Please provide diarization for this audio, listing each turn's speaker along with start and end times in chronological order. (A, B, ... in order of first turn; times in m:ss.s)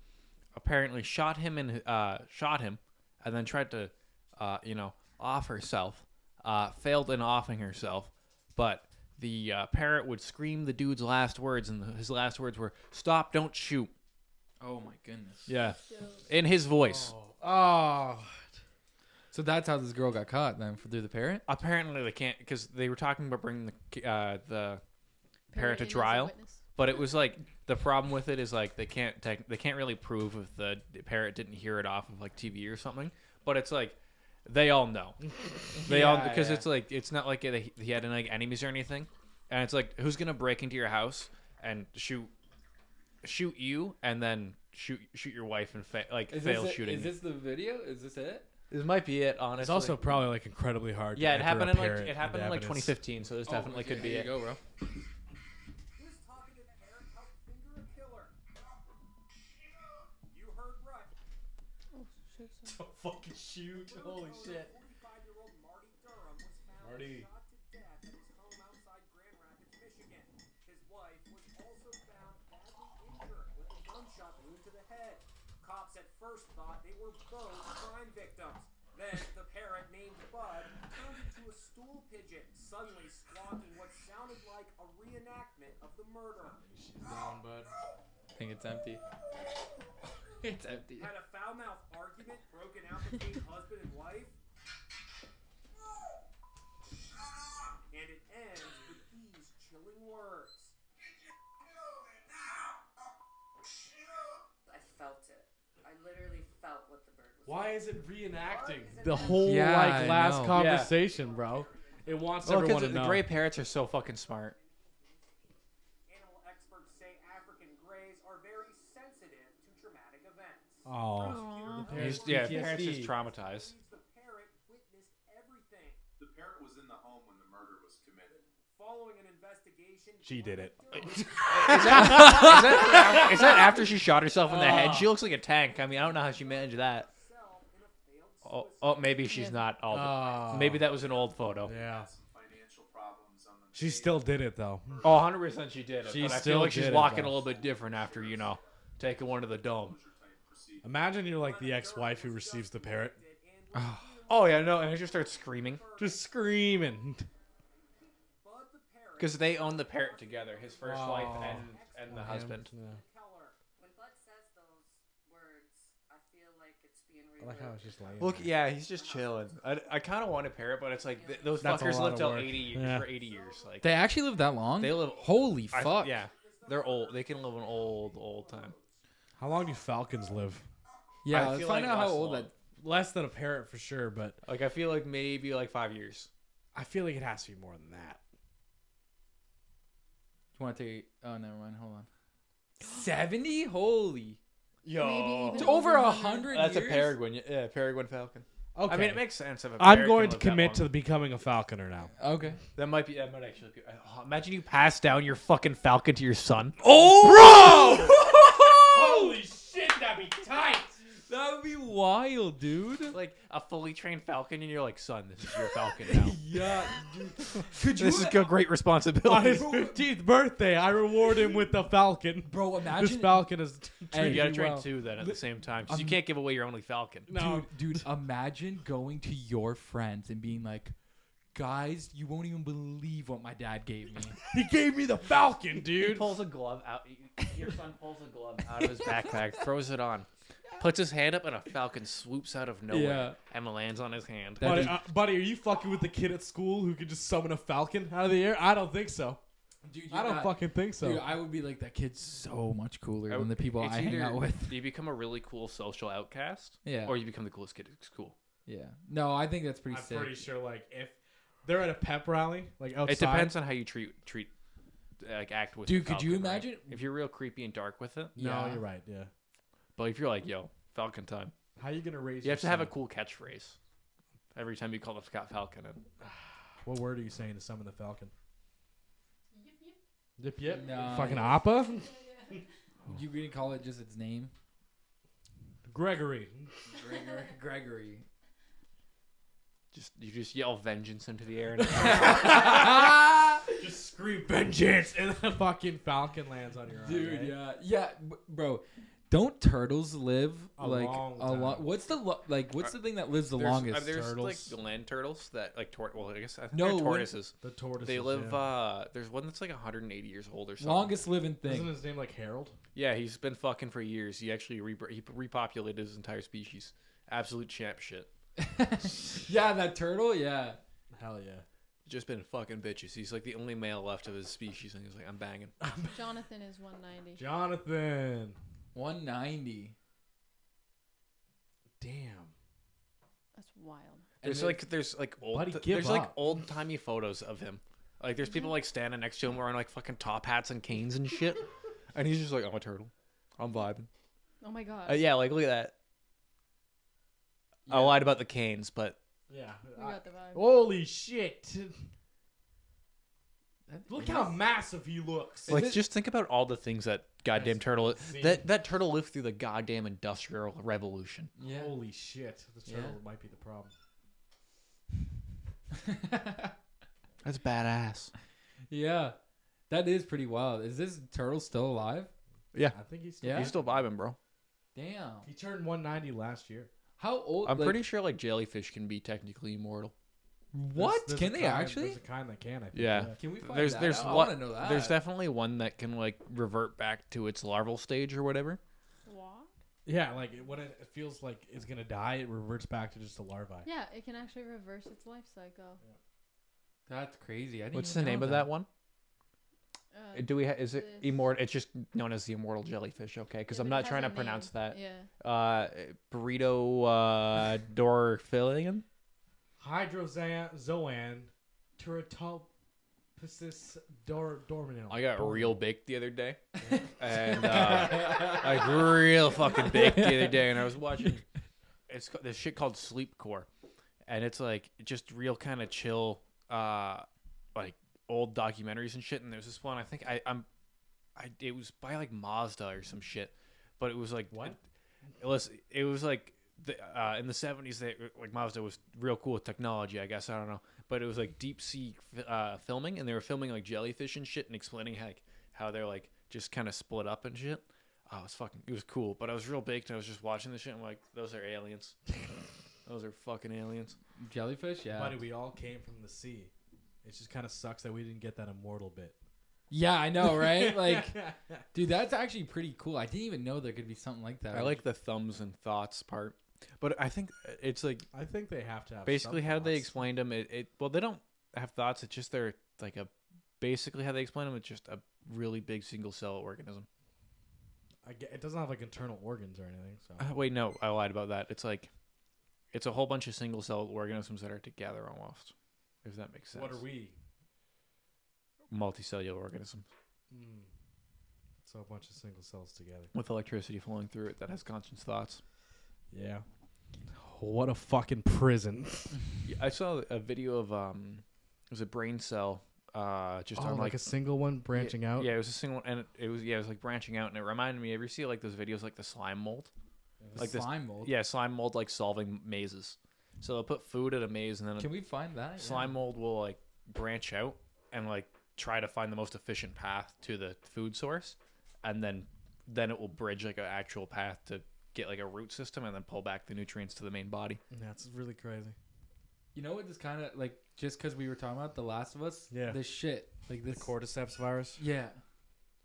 0:00.5-0:13.9 A
0:14.6-0:15.5 B
0:15.5-0:17.1 A
0:15.8-0:16.3 C
0:16.8-0:18.5 D
0:19.3-0:21.4 B
0:21.5-0:24.8 A
0:25.5-0:26.9 C
0:25.5-0:35.2 A
0:35.7-0:36.7 B
0:35.8-0:42.3 A
0:43.2-0:47.1 A
0:46.3-0:48.5 B
0:48.7-0:50.2 A
0:49.6-0:53.0 D
0:51.2-0:54.3 A
0:53.4-0:54.6 B
0:56.0-0:58.3 E
1:00.3-1:01.1 E
1:01.9-1:02.8 C
1:02.7-1:04.7 D
1:03.6-1:26.6 E
1:06.8-1:07.3 D
1:26.6-1:27.7 D
1:28.4-1:29.0 B
1:30.4-1:31.1 B
1:31.0-1:34.4 E
1:37.9-1:40.8 E
1:44.7-1:47.9 F
1:47.4-1:53.3 D
1:48.2-2:06.0 E
1:49.1-1:49.5 F
1:49.4-1:50.6 B
1:50.5-1:51.0 A
1:52.4-1:54.6 A
2:00.8-2:03.1 D
2:01.2-2:02.0 C
2:02.0-2:03.7 A
2:06.2-2:08.4 G
2:08.3-2:13.8 E
2:10.2-2:13.8 D
2:11.4-2:17.1 A
2:12.0-2:12.6 B
2:14.5-2:15.1 D
2:14.5-2:21.2 E
2:18.4-2:21.7 A
2:19.3-2:19.6 C
2:19.9-2:20.9 D
2:20.9-2:30.9 G
2:21.6-2:22.1 D
2:23.7-2:25.2 D
2:25.0-2:30.0 A
2:26.0-2:27.4 D
2:30.8-2:33.2 D
2:31.3-2:37.1 E
2:33.7-2:34.2 B
2:34.3-2:35.8 A
2:36.0-2:37.3 D
2:37.7-2:43.6 E
2:39.2-2:42.7 A
2:40.8-2:43.0 D
2:43.8-2:48.0 F
2:47.4-2:48.5 D
2:48.2-2:53.9 A
2:48.7-2:49.7 F
2:51.1-2:51.8 F
2:51.5-2:59.0 E
2:51.6-2:53.1 D
2:53.8-2:56.2 B
2:54.8-2:58.7 A
2:59.4-3:00.7 D
3:01.2-3:02.5 B
3:01.3-3:02.5 A
3:02.8-3:04.4 D
3:04.4-3:06.3 A
3:06.7-3:08.2 D
3:10.6-3:12.1 B
3:12.8-3:14.4 B
3:14.8-3:15.8 A
3:14.9-3:16.6 C
3:15.5-3:17.2 B
3:16.4-3:20.9 A
3:18.7-3:22.1 D
3:22.2-3:22.6 B
3:22.8-3:26.8 A
3:26.8-3:31.0 D
3:26.8-3:29.4 B
3:31.3-3:33.2 B
3:33.1-3:36.4 A
3:36.1-3:38.5 B
3:37.9-3:39.7 A
3:39.2-3:44.9 D
3:39.4-3:40.0 B
3:42.5-3:43.5 B
3:44.1-3:46.2 B
3:44.2-3:47.3 A
3:47.3-3:48.1 D
3:47.3-3:51.0 B
3:51.5-3:54.4 B
3:54.5-3:56.4 D
3:56.0-4:04.9 A
3:58.8-3:59.4 B
4:02.9-4:03.4 B
4:04.6-4:05.0 B
4:04.6-4:09.4 D
4:09.8-4:14.8 B
4:10.1-4:11.3 D
4:13.3-4:18.4 A
4:16.8-4:17.2 B
4:18.7-4:20.5 B
4:19.9-4:23.6 D
4:23.0-4:24.5 A
4:25.2-4:28.4 A
4:25.9-4:27.0 B
4:28.4-4:29.3 D
4:28.4-4:28.8 B
4:30.0-4:31.5 A
4:31.8-4:33.0 D
4:32.4-4:33.8 A
4:34.6-4:36.0 A
4:36.2-4:38.3 D
4:40.4-4:42.2 D
4:40.7-4:41.7 B
4:43.1-4:44.5 B
4:45.9-4:46.8 D
4:46.9-4:48.3 B
4:49.9-4:52.6 A
4:51.9-4:53.8 B
4:52.0-4:57.6 D
4:57.0-5:04.2 B
5:00.8-5:01.9 D
5:03.5-5:11.2 A
5:04.1-5:04.8 D
5:06.7-5:07.3 B
5:07.6-5:08.6 D
5:10.8-5:11.9 B
5:11.6-5:12.8 D
5:13.0-5:18.3 A
5:18.6-5:20.8 B
5:21.1-5:21.7 D
5:22.1-5:25.7 A
5:25.8-5:26.2 D
5:26.1-5:27.4 C
5:27.4-5:28.6 D
5:28.9-5:30.0 B
5:32.0-5:32.5 D
5:33.6-5:34.3 C
5:34.4-5:34.8 B
5:34.4-5:44.1 A
5:35.4-5:36.4 D
5:38.4-5:38.7 C
5:44.6-5:45.2 C
5:45.1-5:45.9 A
5:47.9-5:48.2 B
5:47.9-5:49.2 A
5:49.5-5:52.1 D
5:50.0-5:50.7 C
5:53.9-5:54.6 B
5:54.1-5:55.8 D
5:55.7-5:56.0 B
5:55.7-6:01.5 A
5:57.6-5:58.7 D
6:01.6-6:02.0 B
6:01.6-6:03.9 D
6:02.9-6:03.2 B
6:06.0-6:06.7 B
6:07.4-6:08.3 A
6:08.9-6:09.4 B
6:09.9-6:12.3 B
6:12.7-6:14.4 A
6:12.9-6:14.0 D
6:13.4-6:13.7 B
6:15.0-6:15.5 B
6:15.4-6:16.9 D
6:17.2-6:18.0 B
6:17.6-6:20.1 A
6:20.7-6:22.2 B
6:21.0-6:23.4 D
6:22.9-6:28.8 A
6:23.4-6:25.2 B
6:24.1-6:24.5 D
6:29.3-6:29.7 C
6:30.1-6:33.9 D
6:33.8-6:36.0 C
6:37.1-6:38.7 B
6:37.9-6:38.9 A
6:40.1-6:41.5 C
6:40.3-6:49.0 A
6:43.7-6:45.3 C
6:49.8-6:52.7 D
6:53.4-6:55.8 D
6:55.1-6:56.6 A
6:56.9-7:01.3 B
6:57.2-7:01.4 A
7:02.1-7:03.7 A
7:04.3-7:10.7 A
7:11.4-7:14.8 A
7:14.5-7:14.8 D
7:15.4-7:32.2 A
7:33.0-7:34.2 A
7:34.4-7:35.4 B
7:35.1-7:36.7 D
7:37.2-7:39.4 D
7:39.9-7:45.0 B
7:40.4-7:41.8 D
7:44.7-7:48.3 A
7:48.3-7:50.2 D
7:49.2-7:57.1 A
7:58.2-8:00.4 D
8:00.4-8:02.1 A
8:02.9-8:05.7 A
8:06.2-8:07.0 A
8:06.7-8:07.4 D
8:08.9-8:10.1 A
8:10.5-8:10.9 D
8:11.8-8:13.3 D
8:13.3-8:15.6 A
8:16.3-8:16.6 D
8:17.3-8:19.4 D
8:19.6-8:24.2 A
8:23.8-8:25.5 D
8:24.9-8:29.9 A
8:30.4-8:30.8 D
8:30.6-8:31.3 B
8:30.6-8:35.1 A
8:35.0-8:36.2 B
8:35.8-8:47.8 A
8:47.9-8:49.0 D
8:49.7-8:54.1 B
8:52.7-8:53.0 D
8:53.9-8:55.0 D
8:55.0-8:55.4 B